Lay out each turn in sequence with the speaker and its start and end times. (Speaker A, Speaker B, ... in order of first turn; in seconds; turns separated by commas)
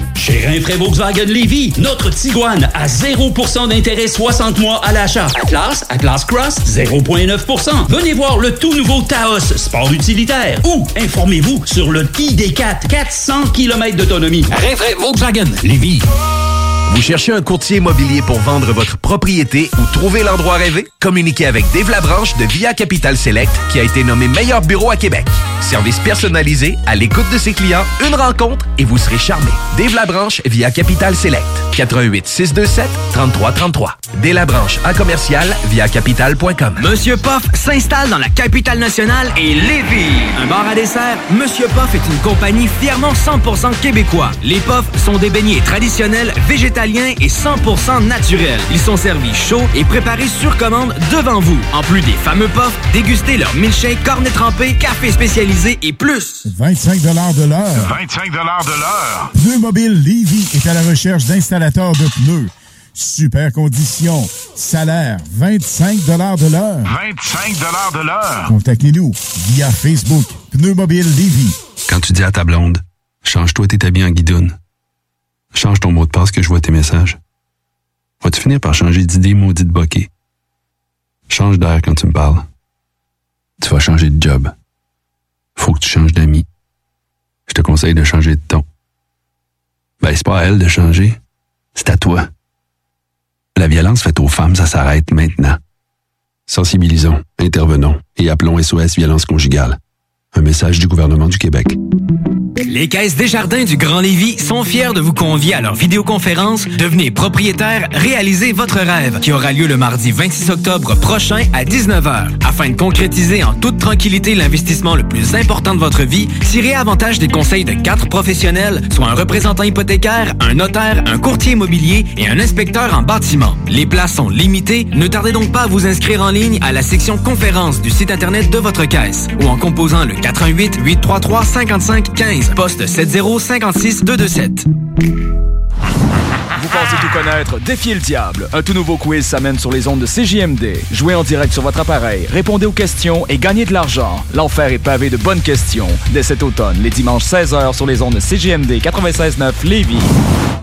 Speaker A: 0.2-16.1, Speaker B: 16.9-36.8, Speaker C: 36.8-56.4, Speaker D: 56.5-58.0, Speaker E: 58.0-58.8, Speaker D: 59.2-67.0, Speaker E: 67.0-68.2, Speaker D: 68.4-71.5, Speaker F: 71.9-74.5, Speaker F: 75.5-77.2, Speaker F: 78.2-80.1, Speaker F: 81.3-82.5, Speaker F: 83.6-84.5, Speaker F: 85.6-86.4, Speaker F: 87.5-88.6, Speaker F: 90.0-91.2, Speaker F: 91.8-92.3, Speaker F: 93.5-95.6, Speaker F: 96.5-99.8, Speaker F: 100.3-101.8, Speaker C: 102.7-134.7, Speaker G: 136.6-150.1